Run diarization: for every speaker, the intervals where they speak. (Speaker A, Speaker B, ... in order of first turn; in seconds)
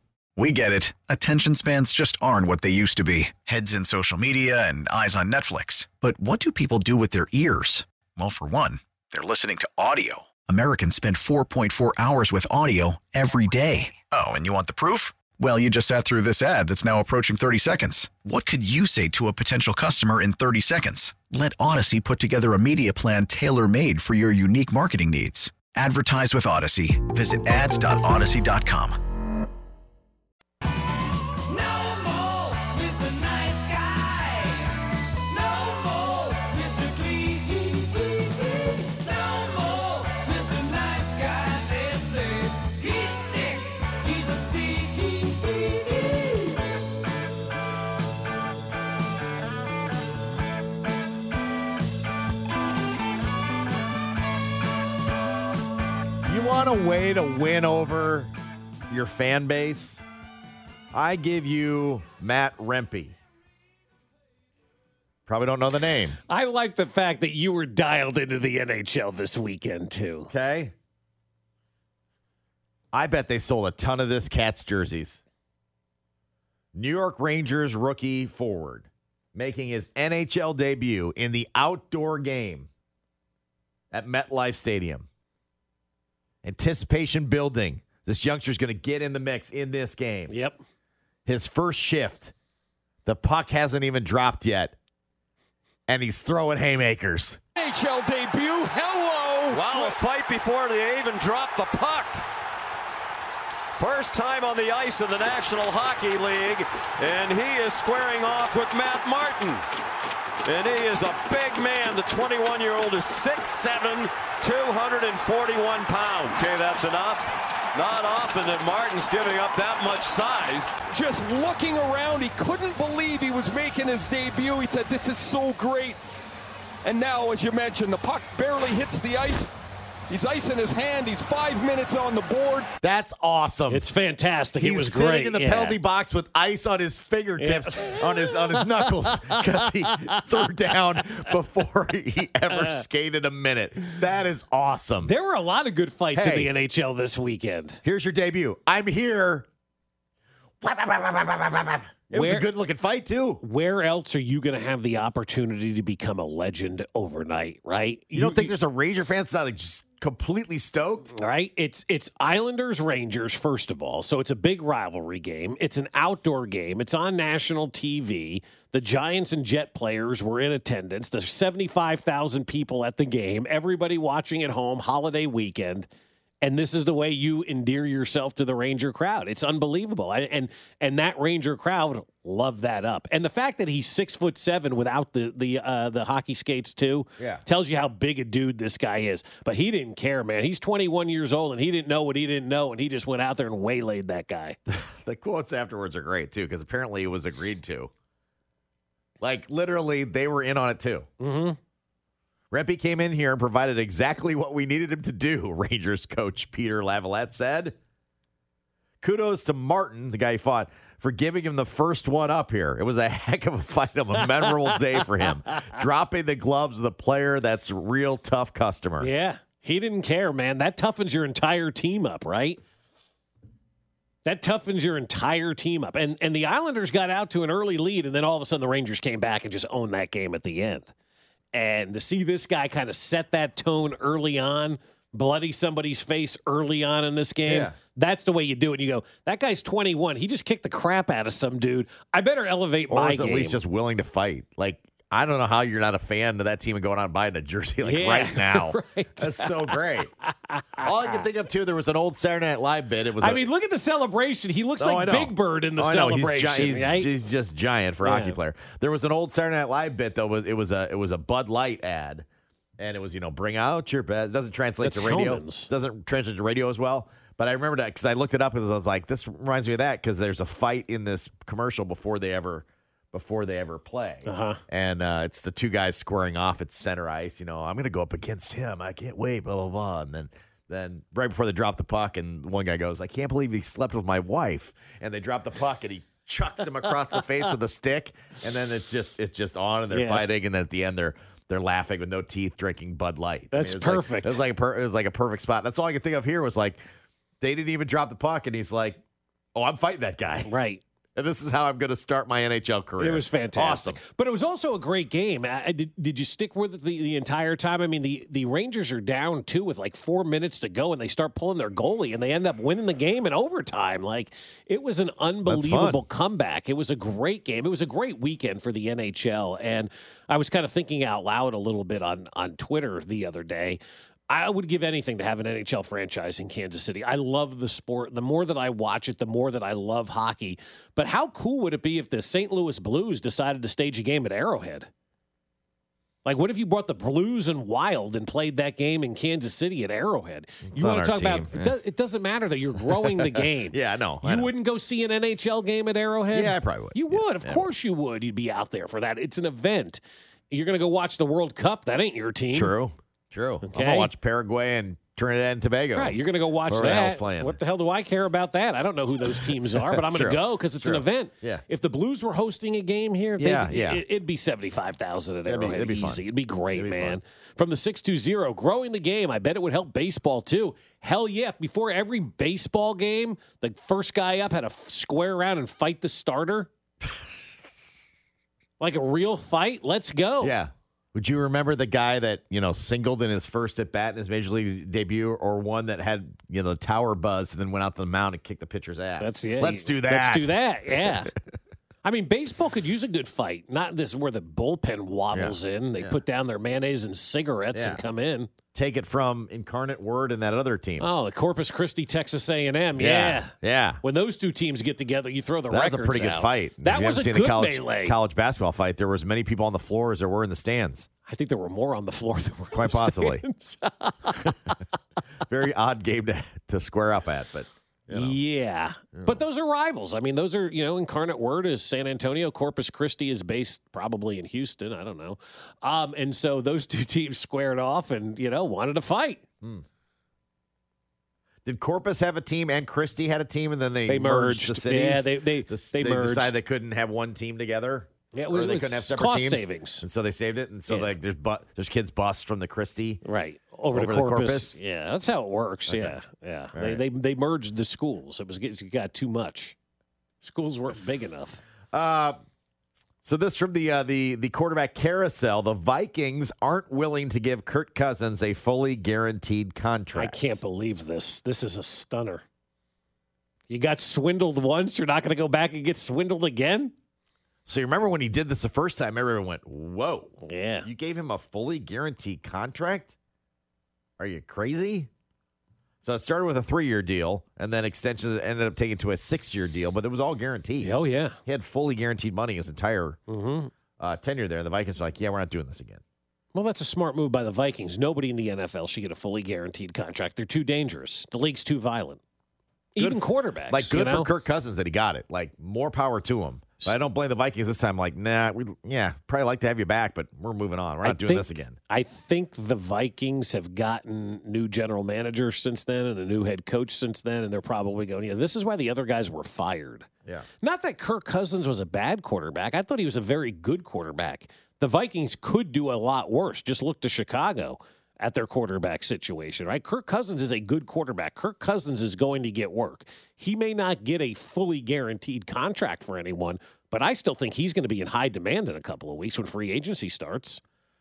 Speaker A: 0.3-29.0
Speaker B: 56.2-58.3, 58.9-60.0, 60.9-63.2, 65.3-66.2, 70.3-70.7, 72.9-75.2, 76.7-82.7, 83.9-85.0, 86.4-90.3, 91.2-92.3, 93.0-94.8, 95.9-97.4, 132.8-133.9, 134.6-145.1, 146.1-146.5, 147.8-149.5, 150.6-153.4, 158.1-161.1, 187.2-187.4, 194.7-197.9, 199.2-201.1, 202.5-207.8, 209.0-219.1, 237.5-237.7, 242.9-250.1, 250.8-253.4, 254.8-262.2, 262.8-296.8, 297.4-299.0, 299.5-300.5, 301.1-304.0, 315.4-316.0, 340.6-341.7, 342.8-344.5, 346.3-347.7, 352.5-357.6, 359.3-361.6, 363.4-364.0, 365.4-367.2, 380.4-391.4, 395.3-396.2, 397.7-398.0, 398.7-401.1, 402.9-404.0, 405.7-411.1, 412.7-413.4, 415.4-418.4, 419.1-419.4, 431.6-443.2, 443.9-444.8, 445.9-446.2, 446.7-447.0, 451.9-452.4, 453.2-460.6, 467.6-473.1, 474.2-475.1, 476.0-480.9, 481.4-483.2, 484.0-486.0, 493.0-501.8
Speaker C: 66.3-70.3, 90.3-90.6, 133.7-135.8, 137.4-140.5, 142.5-142.8, 145.0-147.8, 152.1-152.5, 153.4-158.5, 161.1-175.9, 176.4-194.6, 201.2-201.6, 219.0-222.6, 224.2-230.9, 231.5-243.6, 247.8-251.2, 253.2-257.1, 258.0-258.4, 264.8-265.7, 274.2-274.6, 289.9-290.2, 293.5-294.4, 300.5-300.8, 303.0-334.9, 336.2-350.0, 350.5-352.7, 353.6-354.1, 355.9-376.7, 378.8-380.6, 389.2-391.3, 392.0-398.5, 401.0-408.1, 411.3-414.8, 418.1-429.4, 434.1-436.5, 438.3-440.0, 440.9-441.1, 443.2-449.7, 450.4-451.6, 460.1-462.4, 463.7-466.9, 470.4-470.9, 480.8-481.4, 483.3-483.7, 486.5-492.2, 492.9-494.3, 501.0-510.1, 510.6-530.6
Speaker D: 97.6-100.0, 120.9-126.0, 126.8-129.5, 130.1-132.7
Speaker E: 99.5-102.2, 103.7-109.6, 110.4-120.8